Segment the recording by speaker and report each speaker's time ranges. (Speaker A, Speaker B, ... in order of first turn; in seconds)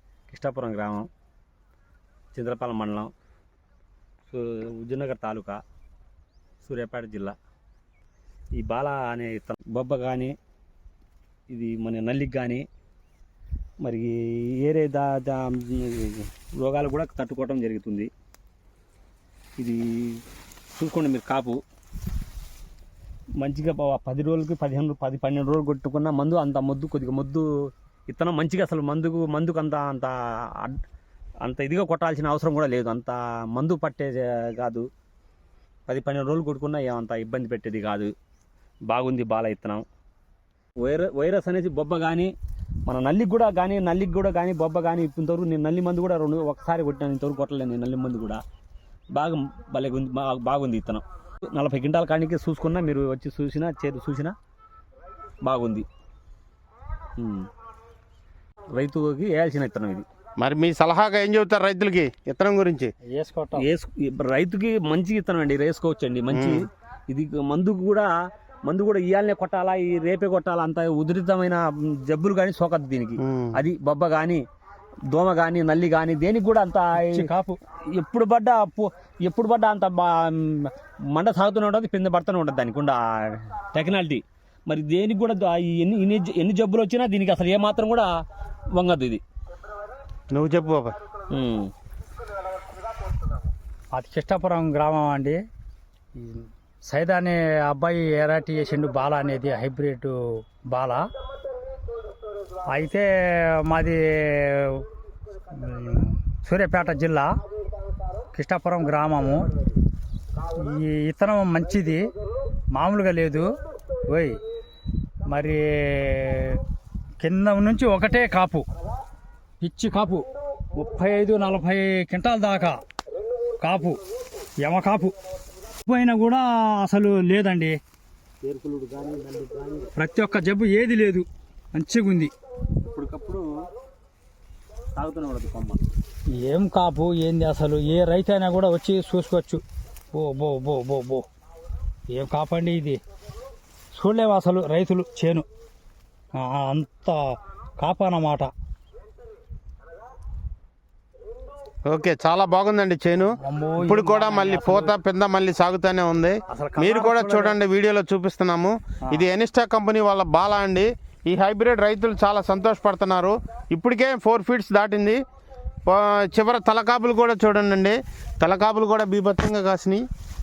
Speaker A: 0.3-1.1, 2.3-3.1, 4.3-5.6, 6.6-7.3, 8.6-10.3, 11.5-12.6, 13.8-18.1, 19.6-20.2, 20.7-21.6, 23.4-27.5, 28.1-30.8, 31.4-34.9, 35.9-38.1, 38.9-39.8, 40.8-42.3, 42.9-48.4, 49.1-54.3, 55.4-55.9, 57.2-57.5, 58.7-60.0, 63.6-68.1, 68.6-74.4, 75.1-77.2, 77.9-88.1, 88.7-89.2, 91.3-91.7, 128.4-129.9, 132.9-133.4, 134.9-135.8
Speaker B: 60.4-62.9, 66.3-66.6, 73.2-73.5, 90.3-90.9, 151.9-165.2, 165.9-170.0
Speaker C: 63.1-63.6, 77.0-77.6, 93.9-95.4, 96.2-100.2, 100.7-101.0, 102.7-104.8, 105.5-107.3, 108.3-109.5, 110.5-112.0, 112.7-113.5, 114.1-114.4, 115.3-116.6, 117.2-118.7, 119.6-120.2, 120.8-122.8, 123.6-124.0, 124.6-125.1, 125.8-127.8, 129.9-132.3, 136.4-139.6, 140.1-141.2, 142.1-143.0, 143.9-145.4, 146.3-147.2, 147.8-148.5, 153.4-154.9, 156.5-157.6